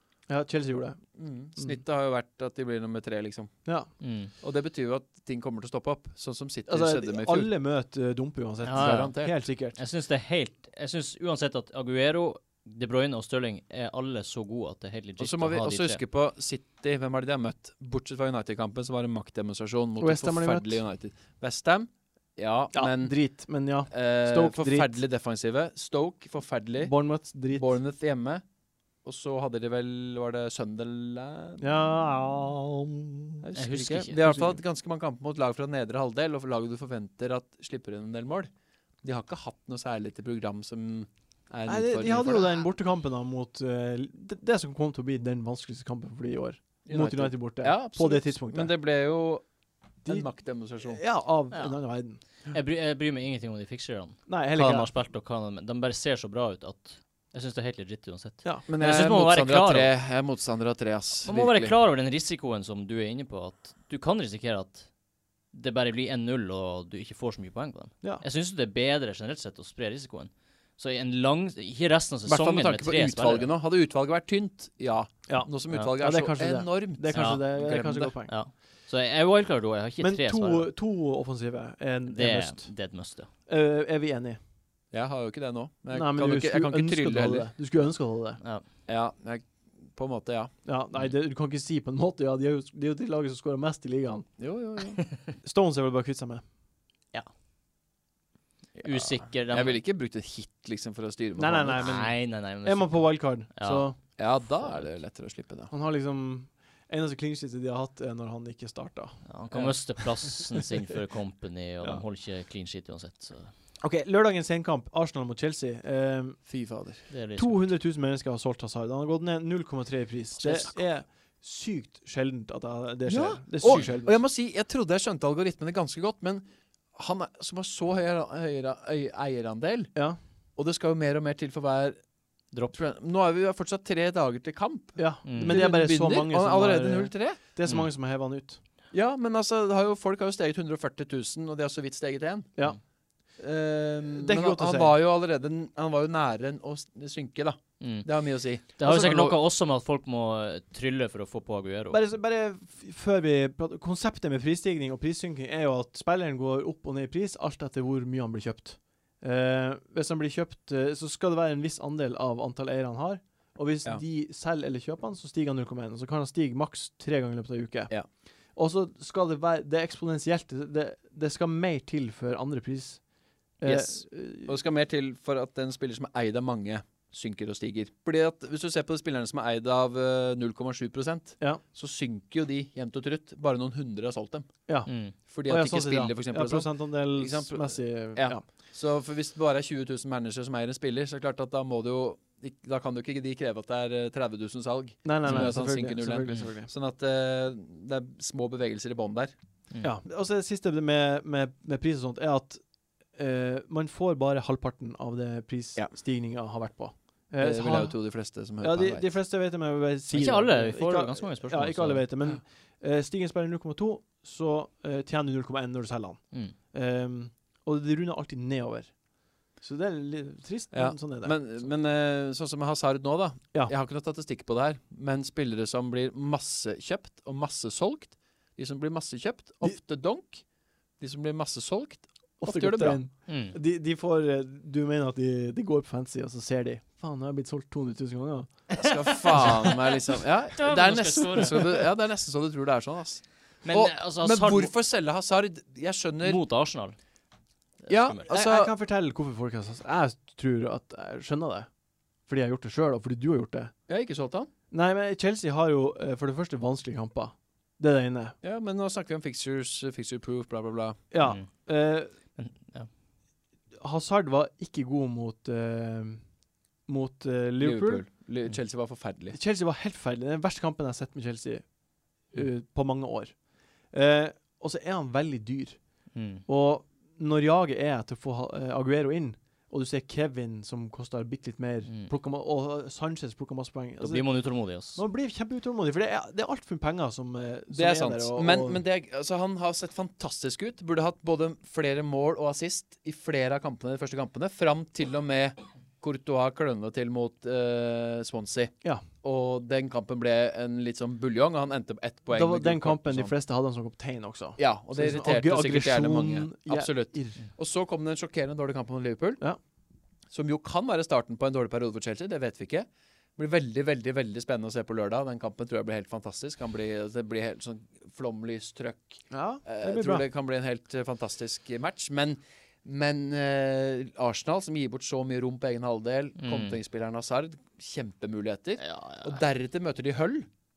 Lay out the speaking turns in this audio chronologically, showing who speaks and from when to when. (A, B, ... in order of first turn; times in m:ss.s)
0:00.3-0:01.0 A
0:01.2-0:03.5 B
0:04.0-0:04.3 C
0:04.4-0:07.5 B
0:06.7-0:09.8 A
0:08.6-0:09.2 C
0:08.7-0:09.4 B
0:09.8-0:16.0 C
0:15.2-0:23.2 B
0:20.0-0:20.8 A
0:22.7-0:25.0 A
0:23.9-0:27.0 B
0:26.8-0:27.8 A
0:27.5-0:28.4 B
0:29.0-0:31.6 B
0:31.6-0:33.4 A
0:33.4-0:38.5 B
0:33.6-0:34.2 C
0:34.2-0:34.6 A
0:39.0-0:42.5 B
0:41.7-0:48.7 A
0:46.9-0:49.4 B
0:50.0-0:51.0 B
0:50.8-0:52.2 A
0:51.5-0:51.8 C
0:52.5-0:59.9 C
0:54.3-0:54.9 A
0:58.7-1:01.7 B
1:01.2-1:04.9 C
1:05.5-1:13.5 C
1:12.3-1:18.1 B
1:15.3-1:18.3 A
1:17.1-1:17.5 C
1:18.3-1:20.7 C
1:20.0-1:22.7 A
1:22.1-1:23.3 C
1:23.5-1:24.4 A
1:24.9-1:27.5 B
1:25.9-1:28.4 A
1:28.9-1:30.5 B
1:30.6-1:34.3 A
1:34.4-1:35.0 B
1:35.4-1:36.4 A
1:38.8-1:41.9 B
1:38.8-1:39.8 C
1:41.4-1:44.0 A
1:41.8-1:43.9 C
1:44.2-1:45.7 B
1:45.7-1:50.4 A
1:49.3-1:53.5 C
1:53.8-1:56.4 A
1:56.5-1:57.0 B
1:57.1-1:57.7 C
1:57.4-2:04.2 A
2:03.1-2:09.9 B
2:10.6-2:12.0 B
2:12.5-2:12.8 C
2:12.7-2:17.4 B
2:15.0-2:18.6 A
2:15.3-2:15.6 C
2:18.9-2:22.6 B
2:23.4-2:29.4 B
2:24.1-2:25.0 A
2:27.8-2:28.1 C
2:28.6-2:32.0 C
2:31.9-2:47.9 A
2:48.6-2:53.0 A
2:53.6-2:54.6 A
2:53.6-3:04.5 B
3:04.9-3:05.1 C
3:05.3-3:19.3 B
3:05.4-3:08.4 A
3:15.0-3:16.7 A
3:15.3-3:15.6 C
3:19.8-3:39.0 A
3:27.4-3:29.1 B
3:30.1-3:32.1 C
3:39.6-3:41.4 A
3:40.7-3:50.4 B
3:51.0-3:53.0 B
3:52.4-3:58.6 A
3:53.3-3:53.6 C
3:58.7-4:00.0 C
3:58.7-4:06.4 B
4:00.6-4:01.9 C
4:03.6-4:04.7 C
4:06.2-4:07.0 C
4:07.8-4:08.2 C
4:07.9-4:08.7 B
4:08.3-4:11.7 A
4:12.3-4:13.7 A
4:13.9-4:14.5 B
4:14.7-4:18.4 A
4:18.4-4:21.0 B
4:21.1-4:22.1 A
4:21.2-4:21.7 C
4:22.4-4:22.9 C
4:23.8-4:26.2 A
4:26.9-4:28.0 A
4:27.6-4:29.4 B
4:29.3-4:31.7 A
4:32.2-4:48.8 A
4:36.1-4:36.4 C
4:44.0-4:45.0 C
4:47.7-5:03.3 B
5:02.3-5:07.4 A
5:04.6-5:09.4 B
5:10.3-5:30.5 B
5:19.3-5:20.2 A
5:26.4-5:26.8 C
5:28.8-5:29.4 C